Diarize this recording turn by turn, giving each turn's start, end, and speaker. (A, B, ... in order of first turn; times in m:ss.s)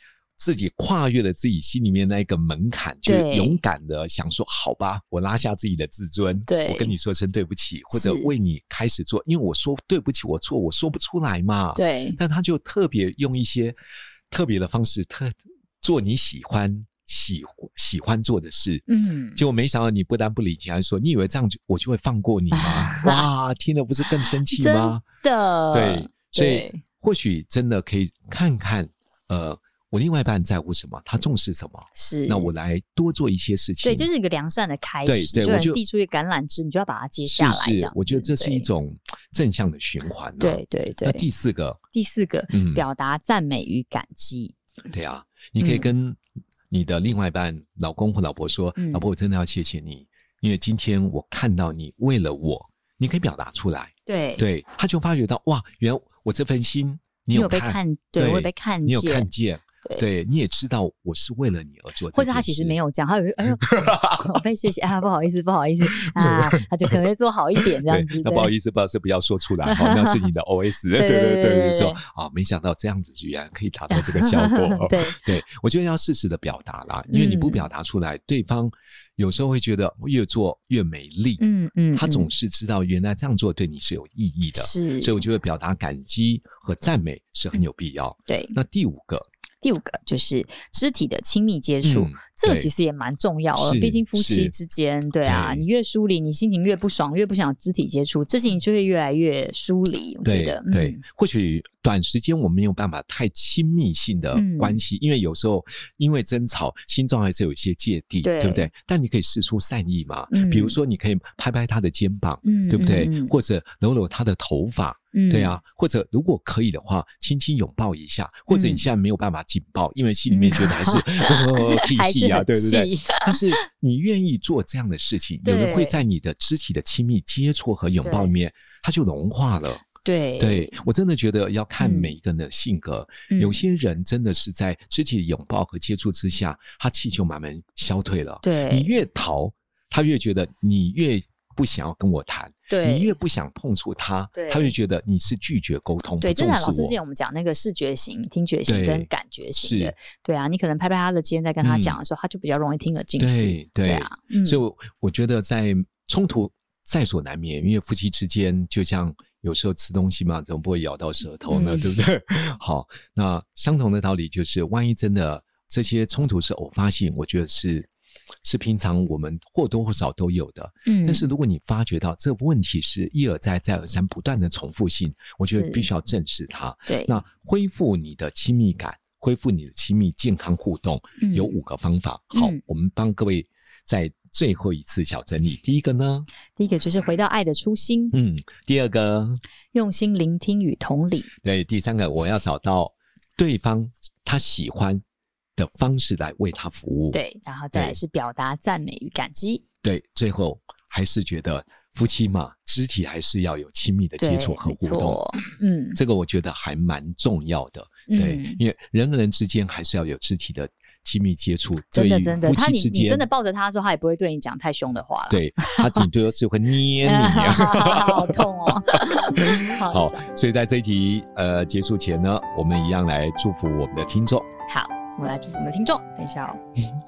0:00.4-0:13.8 A
0:03.0-0:03.6 B
0:06.5-0:06.9 B
0:07.9-0:08.3 B
0:11.8-0:12.2 B
0:14.3-0:18.8 A
0:18.9-0:19.4 B
0:19.4-0:25.0 A
0:22.5-0:23.3 B
0:24.5-0:26.8 B
0:25.7-0:34.1 A
0:32.0-0:32.5 B
0:33.8-0:38.7 B
0:35.1-0:35.8 A
0:37.3-0:41.8 A
0:40.4-0:41.2 B
0:41.9-0:44.6 B
0:42.5-0:42.8 A
0:44.9-1:02.8 A
0:45.6-0:45.9 B
0:48.8-0:49.0 B
0:54.1-0:54.4 B
0:57.3-0:59.3 B
1:02.1-1:08.5 B
1:03.6-1:04.4 A
1:06.0-1:06.6 A
1:07.6-1:21.4 A
1:09.6-1:10.3 B
1:11.0-1:12.0 B
1:13.9-1:15.3 B
1:17.1-1:17.7 B
1:21.4-1:22.3 B
1:21.9-1:29.3 A
1:24.6-1:25.2 B
1:28.3-1:28.6 B
1:29.6-1:41.0 B
1:31.8-1:32.7 A
1:33.6-1:34.5 A
1:35.2-1:35.6 A
1:40.2-2:09.9 A
1:44.3-1:44.8 B
1:48.2-1:48.7 B
1:50.3-1:50.8 B
1:52.4-1:53.3 B
1:55.1-1:55.6 B
1:58.5-1:58.8 B
2:00.3-2:03.6 B
2:05.4-2:06.0 B
2:08.0-2:08.3 B
2:10.0-2:10.8 B
2:10.4-2:27.0 A
2:11.8-2:12.1 B
2:13.3-2:13.6 B
2:18.4-2:19.0 B
2:22.7-2:23.2 B
2:24.4-2:24.7 B
2:26.2-2:34.6 B
2:28.7-2:29.9 A
2:31.6-2:32.0 A
2:33.2-2:47.9 A
2:41.5-2:41.9 B
2:48.4-3:06.3 A
2:50.9-2:51.3 B
2:55.4-2:55.9 B
2:56.9-2:57.2 B
3:01.2-3:01.6 B
3:02.3-3:02.6 B
3:06.6-3:08.2 B
3:08.1-3:09.4 A
3:09.7-3:11.3 B
3:11.4-3:15.0 A
3:15.6-3:17.2 A
3:17.1-3:19.6 B
3:19.8-3:25.2 A
3:24.2-3:26.0 B
3:26.0-3:33.3 A
3:28.1-3:28.6 B
3:31.9-3:36.0 B
3:35.3-3:44.5 A
3:37.0-3:40.2 B
3:44.7-3:46.6 B